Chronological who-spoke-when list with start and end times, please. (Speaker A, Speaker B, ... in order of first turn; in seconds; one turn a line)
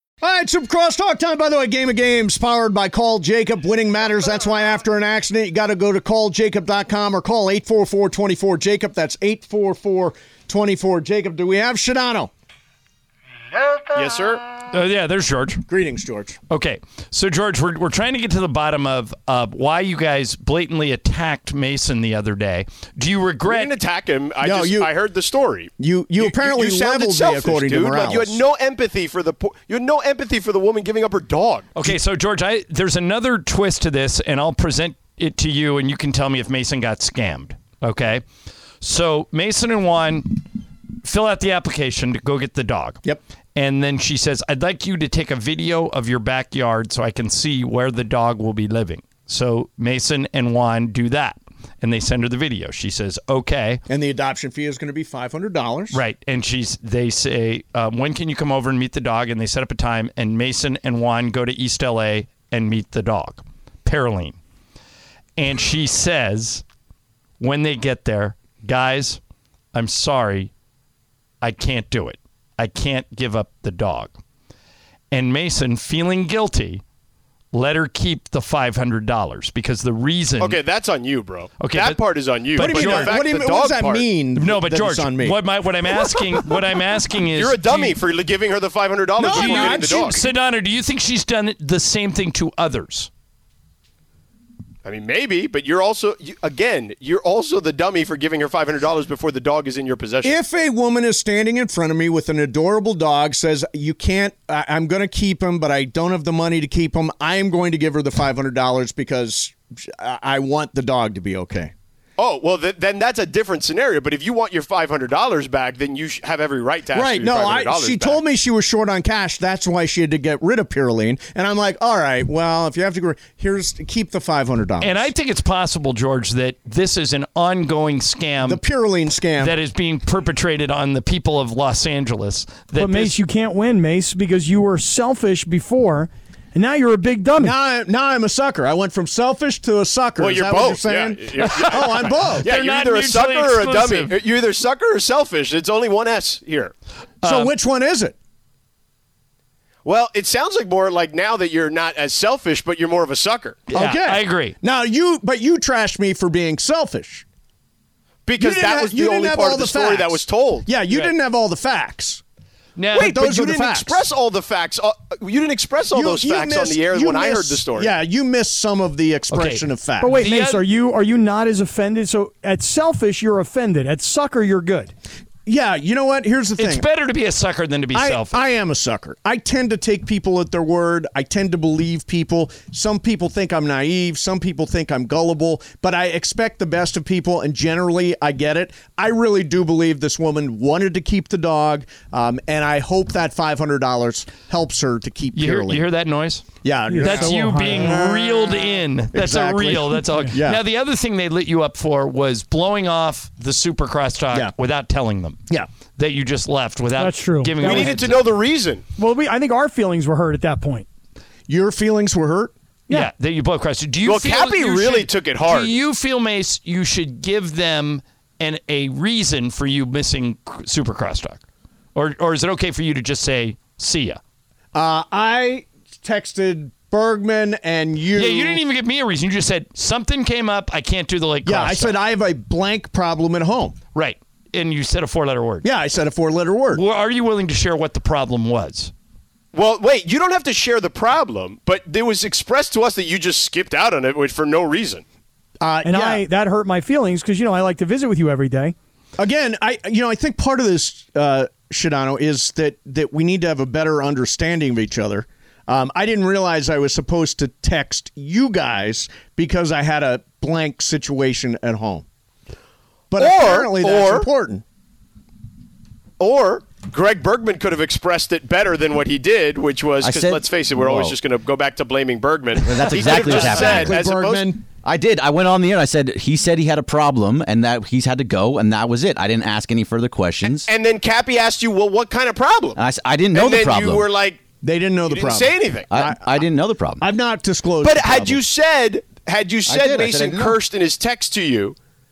Speaker A: 0.2-12.3
Speaker B: 13.9-14.4
Speaker C: 14.7-15.6
Speaker A: 15.7-16.4
Speaker C: 16.5-23.8
Speaker B: 23.4-31.7
Speaker A: 24.4-24.9
Speaker A: 25.8-28.4
Speaker C: 31.7-38.2
Speaker C: 38.8-40.4
Speaker C: 41.0-43.0
Speaker C: 43.5-53.8
Speaker A: 53.9-56.0
Speaker C: 55.9-64.4
Speaker C: 65.4-66.6
Speaker C: 67.4-69.2
Speaker C: 69.7-70.5
Speaker C: 71.4-74.1
Speaker C: 75.1-76.8
Speaker C: 77.5-80.6
Speaker B: 80.4-84.1
Speaker C: 81.6-83.2
Speaker A: 82.5-85.3
Speaker C: 84.3-88.0
Speaker B: 87.3-90.2
Speaker A: 89.2-90.2
Speaker C: 89.2-93.1
Speaker B: 94.8-100.4
Speaker A: 100.2-111.7
Speaker B: 112.2-118.2
Speaker A: 116.9-125.1
Speaker C: 124.8-128.6
Speaker A: 128.4-129.5
Speaker C: 129.4-133.2
Speaker D: 132.8-137.5
Speaker A: 137.4-142.5
Speaker B: 140.2-146.7
Speaker C: 141.4-144.1
Speaker C: 147.2-147.5
Speaker A: 147.2-148.1
Speaker B: 149.8-153.7
Speaker A: 153.7-157.2
Speaker C: 153.7-154.6
Speaker B: 158.2-161.1
Speaker A: 158.4-162.2
Speaker C: 162.8-163.1
Speaker A: 162.9-164.0
Speaker B: 163.0-167.9
Speaker A: 165.9-170.2
Speaker C: 169.3-170.6
Speaker D: 170.0-174.9
Speaker A: 175.4-176.8
Speaker C: 176.6-178.4
Speaker A: 177.9-195.8
Speaker C: 195.3-205.4
Speaker A: 196.6-200.6
Speaker D: 196.9-198.0
Speaker C: 206.0-208.2
Speaker D: 207.0-208.0
Speaker B: 207.6-208.8
Speaker D: 209.0-210.8
Speaker A: 211.5-212.5
Speaker C: 212.9-221.4
Speaker B: 214.0-215.7
Speaker C: 221.9-224.2
Speaker A: 224.7-228.6
Speaker C: 228.1-232.0
Speaker A: 231.4-233.8
Speaker C: 233.9-235.7
Speaker A: 235.6-236.8
Speaker C: 236.7-238.9
Speaker B: 239.5-245.0
Speaker A: 245.6-246.2
Speaker D: 245.8-248.7
Speaker A: 249.2-262.0
Speaker A: 263.1-264.6
Speaker B: 263.1-264.3
Speaker B: 266.2-274.5
Speaker E: 270.0-271.1
Speaker E: 272.6-274.0
Speaker A: 272.9-274.6
Speaker E: 274.8-280.7
Speaker B: 280.4-282.8
Speaker E: 282.8-284.1
Speaker B: 283.3-284.4
Speaker A: 284.6-286.2
Speaker B: 285.1-285.9
Speaker E: 285.9-287.0
Speaker A: 287.0-288.4
Speaker B: 287.8-291.8
Speaker E: 289.6-290.6